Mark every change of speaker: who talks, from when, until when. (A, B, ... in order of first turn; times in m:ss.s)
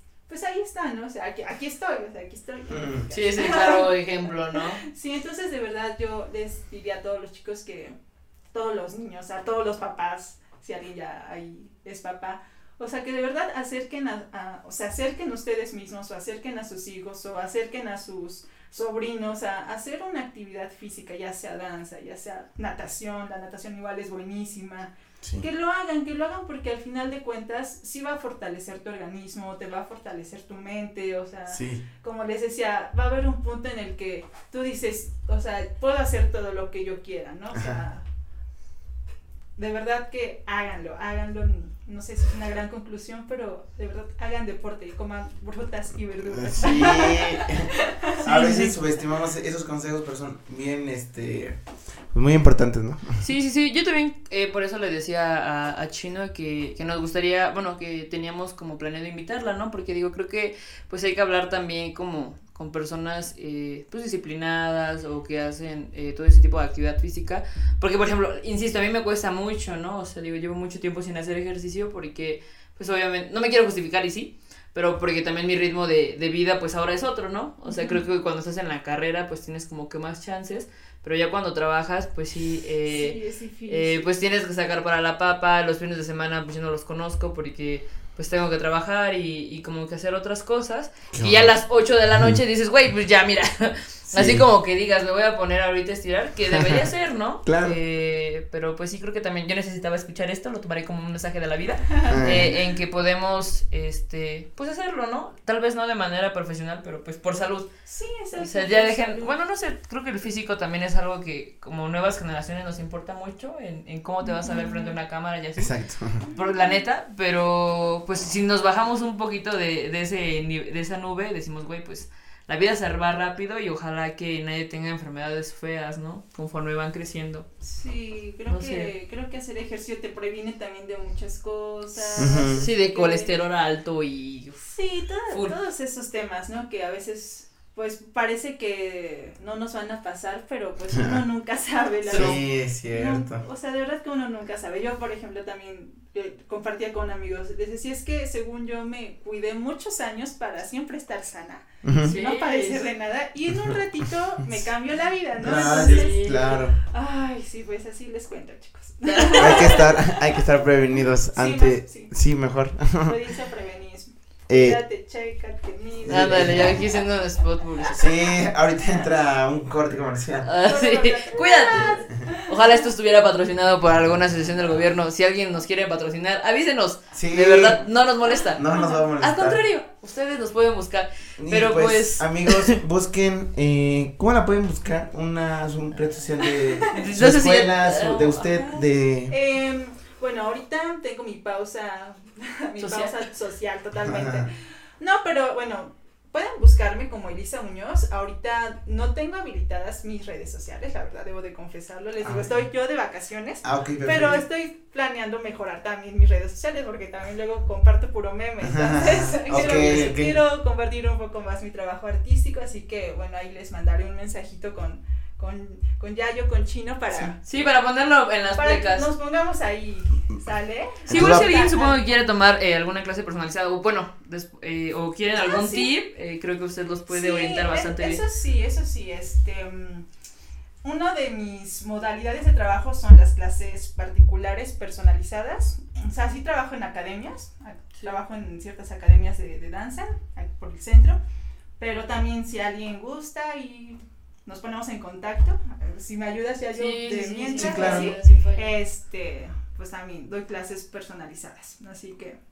0:00.3-0:08.0 A
0:02.7-0:03.1 B
0:03.1-0:04.8 C
0:08.5-0:38.0 A
0:31.5-0:31.8 B
0:37.6-0:37.8 B
0:39.6-0:48.2 A
0:46.3-0:53.2 B
0:48.2-0:48.7 C
0:53.2-1:47.7 C
1:17.7-1:18.0 A
1:22.9-1:24.1 A
1:31.1-1:31.5 B
1:34.1-1:34.5 B
1:36.5-1:36.8 B
1:37.4-1:37.8 B
1:42.1-1:42.5 B
1:47.9-1:49.3 A
1:48.4-1:55.8 C
1:54.2-1:55.0 A
1:55.6-1:56.2 B
1:56.2-1:56.8 A
1:56.3-2:07.5 C
2:07.6-2:13.3 A
2:08.5-2:08.9 C
2:12.2-2:12.7 B
2:12.2-2:14.7 C
2:14.7-2:40.4 A
2:15.3-2:15.6 C
2:22.1-2:23.4 B
2:31.8-2:32.2 B
2:32.0-2:32.9 C
2:35.4-2:36.8 B
2:35.4-2:36.5 C
2:39.1-2:39.6 C
2:39.3-2:43.2 B
2:41.3-2:42.1 A
2:43.0-2:46.8 A
2:44.5-2:44.8 B
2:46.0-2:46.8 B
2:46.1-2:48.0 C
2:47.9-2:50.5 B
2:50.4-2:58.6 C
2:50.6-2:52.5 A
2:53.9-2:54.7 B
2:57.1-2:57.8 B
2:58.6-2:59.6 B
2:58.7-2:59.0 A
2:59.2-3:02.8 C
3:01.4-3:09.3 B
3:06.4-3:07.1 A
3:06.9-3:08.5 C
3:08.5-3:37.5 A
3:12.8-3:13.2 C
3:14.0-3:14.5 B
3:22.2-3:22.6 B
3:23.6-3:24.4 B
3:28.6-3:30.4 B
3:29.7-3:30.1 C
3:37.5-3:39.1 C
3:38.6-3:42.2 A
3:41.1-3:41.5 B
3:41.1-3:48.2 C
3:45.3-3:45.9 A
3:47.1-3:50.1 A
3:50.8-4:01.2 A
4:01.8-4:12.4 A
4:06.7-4:08.7 C
4:07.6-4:08.2 B